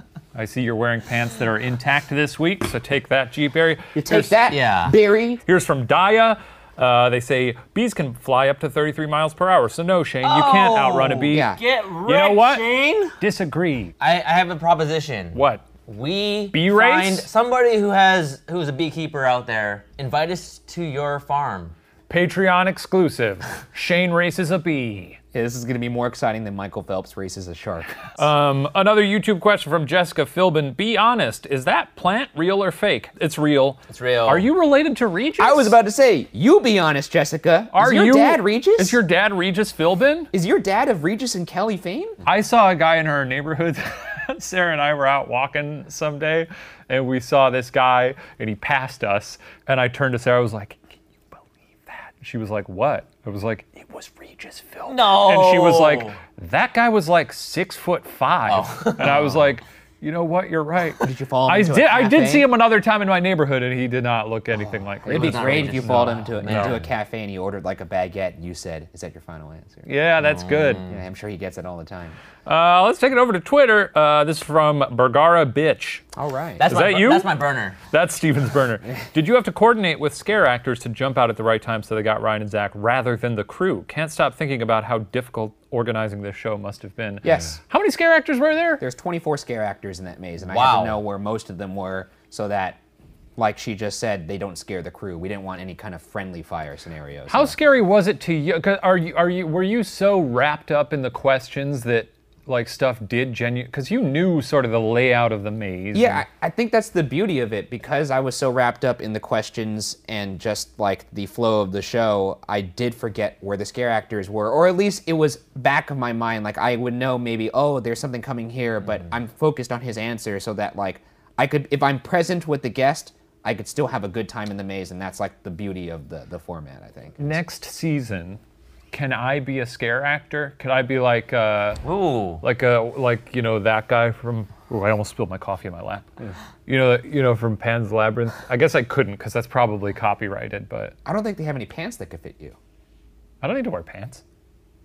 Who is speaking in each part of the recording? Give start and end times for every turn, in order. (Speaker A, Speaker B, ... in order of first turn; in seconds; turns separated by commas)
Speaker A: 0.3-4.3, Speaker B: 3.9-5.4, Speaker C: 4.5-5.0, Speaker A: 5.4-11.5, Speaker C: 10.2-13.2, Speaker B: 11.3-11.6, Speaker A: 12.0-12.7, Speaker A: 13.2-13.9, Speaker C: 14.0-21.7, Speaker A: 15.3-15.6, Speaker A: 16.5-17.3, Speaker A: 22.1-25.2, Speaker B: 25.3-28.1, Speaker A: 28.1-35.8, Speaker C: 33.9-34.5, Speaker B: 35.4-39.0, Speaker A: 37.7-40.3, Speaker B: 40.3-42.2, Speaker A: 42.2-66.8, Speaker C: 54.9-56.2, Speaker C: 58.5-59.4, Speaker B: 61.0-62.5, Speaker B: 64.5-69.9, Speaker C: 65.1-66.9, Speaker A: 69.8-70.9, Speaker C: 70.2-71.0, Speaker B: 70.9-72.2, Speaker A: 72.5-76.0, Speaker B: 76.1-76.7, Speaker C: 76.6-77.8, Speaker A: 76.7-88.8, Speaker B: 87.2-87.6, Speaker B: 88.8-92.8, Speaker C: 90.5-91.0, Speaker B: 93.4-97.6, Speaker A: 97.3-106.2, Speaker B: 105.9-127.4, Speaker A: 127.2-128.4, Speaker A: 128.9-131.8, Speaker C: 131.8-132.4, Speaker A: 132.4-140.9, Speaker B: 141.0-142.6, Speaker A: 143.4-144.2